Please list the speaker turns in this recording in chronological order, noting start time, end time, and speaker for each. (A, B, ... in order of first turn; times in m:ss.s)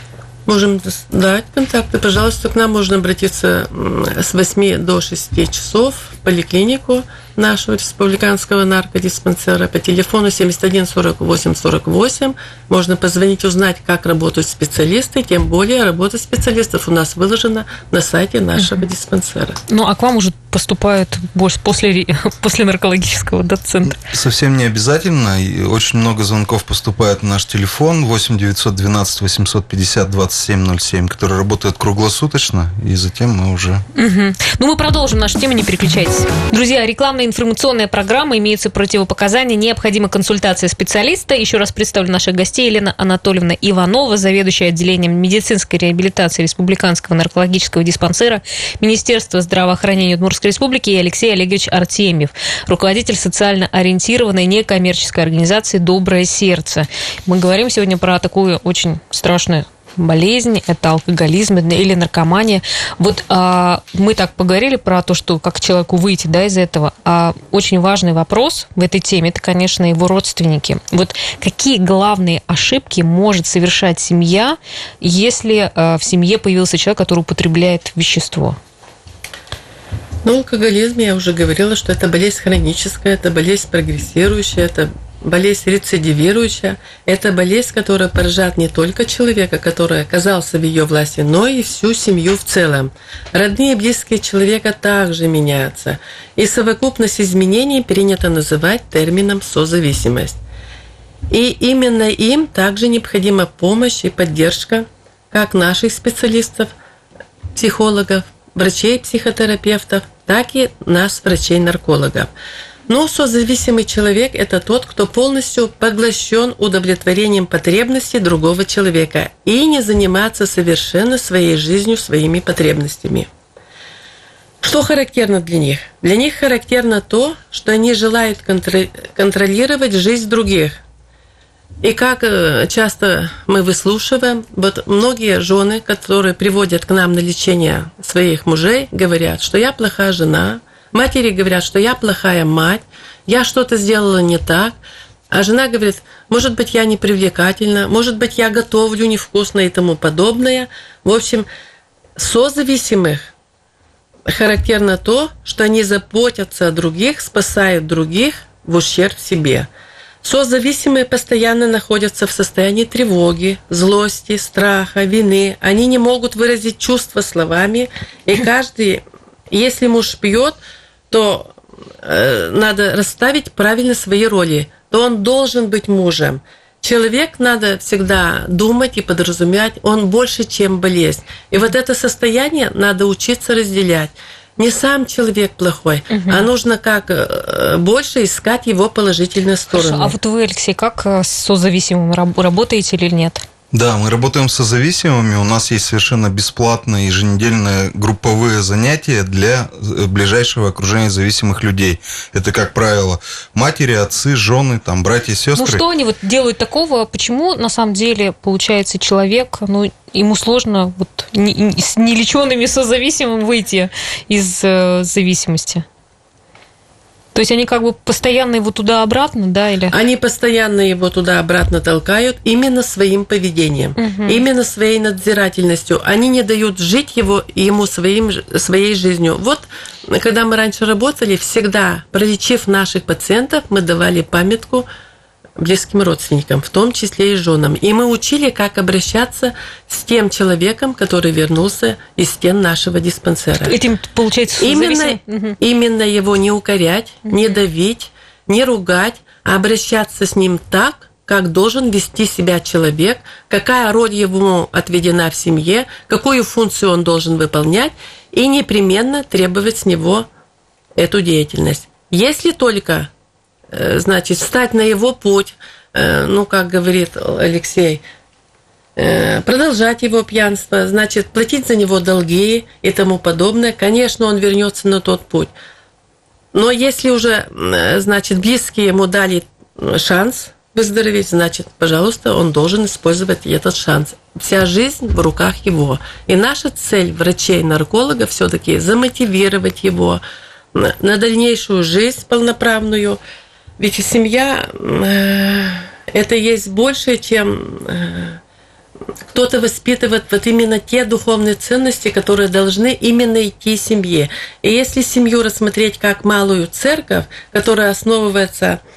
0:00.4-0:19.6 A
0:19.7-0:24.0 B
0:23.9-0:33.8 C
0:33.9-1:18.6 B
1:20.2-1:40.4 A
1:41.3-1:46.7 A
1:47.6-1:52.3 A
1:52.9-2:03.3 A
2:04.6-2:10.8 A
2:11.8-2:24.7 A
2:25.3-2:31.5 A
2:32.2-2:33.3 A
2:34.3-2:39.7 A
2:40.2-2:50.6 A
2:51.1-3:10.1 A
3:06.1-3:06.5 B
3:09.7-3:13.4 B
3:13.7-3:25.8 C
3:25.5-3:35.8 B
3:37.3-3:39.9 B
3:39.9-3:54.9 A
3:44.0-3:44.4 B
3:55.6-4:03.8 A
4:03.6-4:05.6 B
4:04.6-4:20.3 A
4:07.3-4:07.6 B
4:21.0-4:23.1 A
4:23.7-4:28.0 A
4:29.0-4:35.5 A
4:36.5-4:50.2 A
4:50.7-4:53.2 A
4:53.8-4:58.4 A
4:59.3-5:08.8 A